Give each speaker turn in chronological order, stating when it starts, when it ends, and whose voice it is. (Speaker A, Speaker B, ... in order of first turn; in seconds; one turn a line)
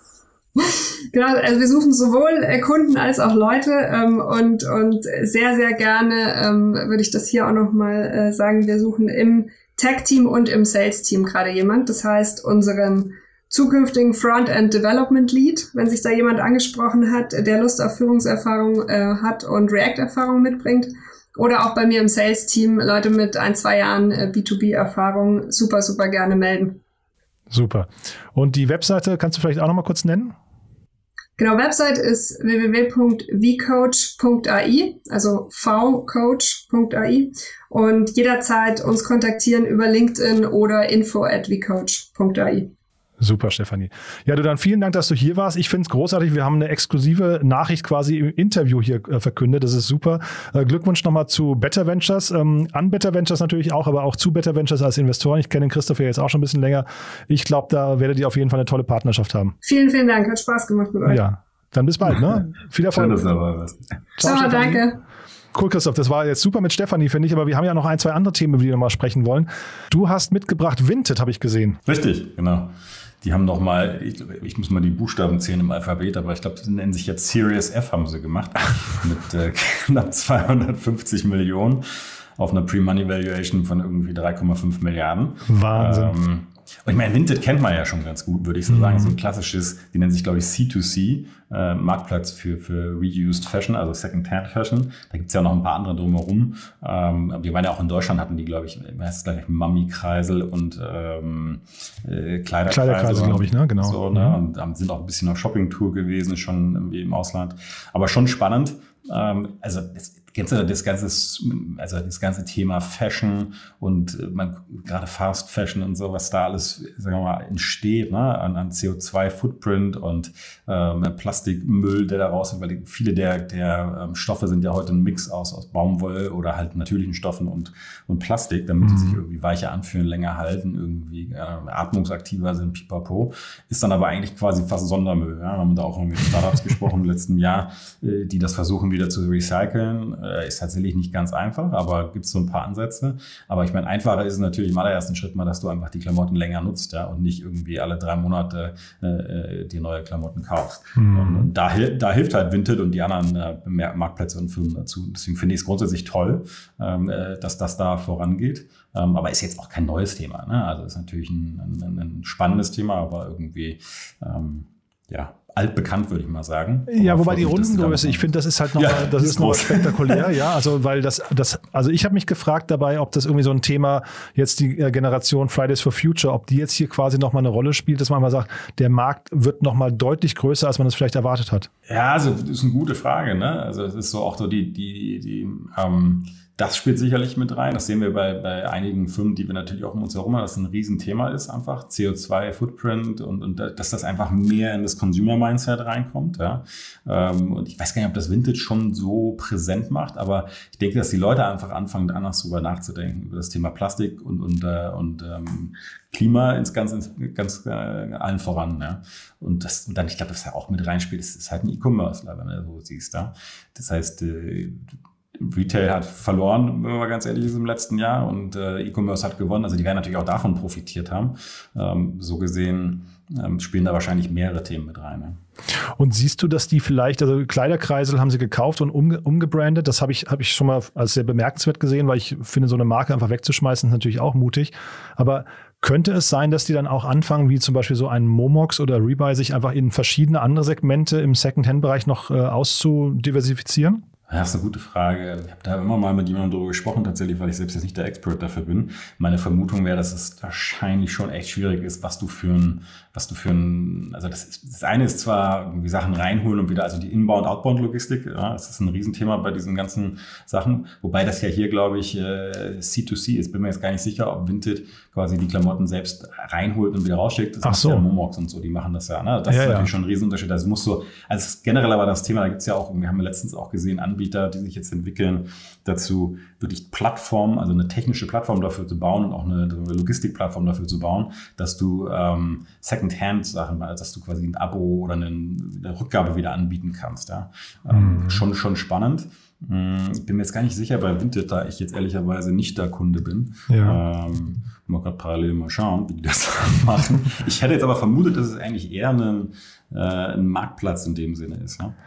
Speaker A: 0.6-26.8
Speaker B: 27.5-30.3
Speaker A: 31.4-42.7
Speaker B: 43.2-59.5
Speaker A: 59.6-61.2
Speaker B: 61.0-63.2
Speaker C: 62.9-64.0
Speaker B: 64.2-64.8
Speaker A: 64.2-65.0
Speaker B: 65.5-71.8
Speaker C: 71.8-81.8
Speaker C: 82.4-170.2
Speaker B: 85.5-86.1
Speaker B: 88.7-89.2
Speaker B: 102.7-104.4
Speaker B: 128.8-129.2
Speaker B: 151.0-151.5
Speaker B: 166.9-181.7
Speaker C: 181.9-214.8
Speaker C: 215.4-225.4
Speaker B: 226.0-244.0
Speaker C: 244.3-301.9
Speaker B: 267.6-268.1
Speaker B: 269.5-269.9
Speaker B: 287.9-288.4
Speaker B: 293.7-294.0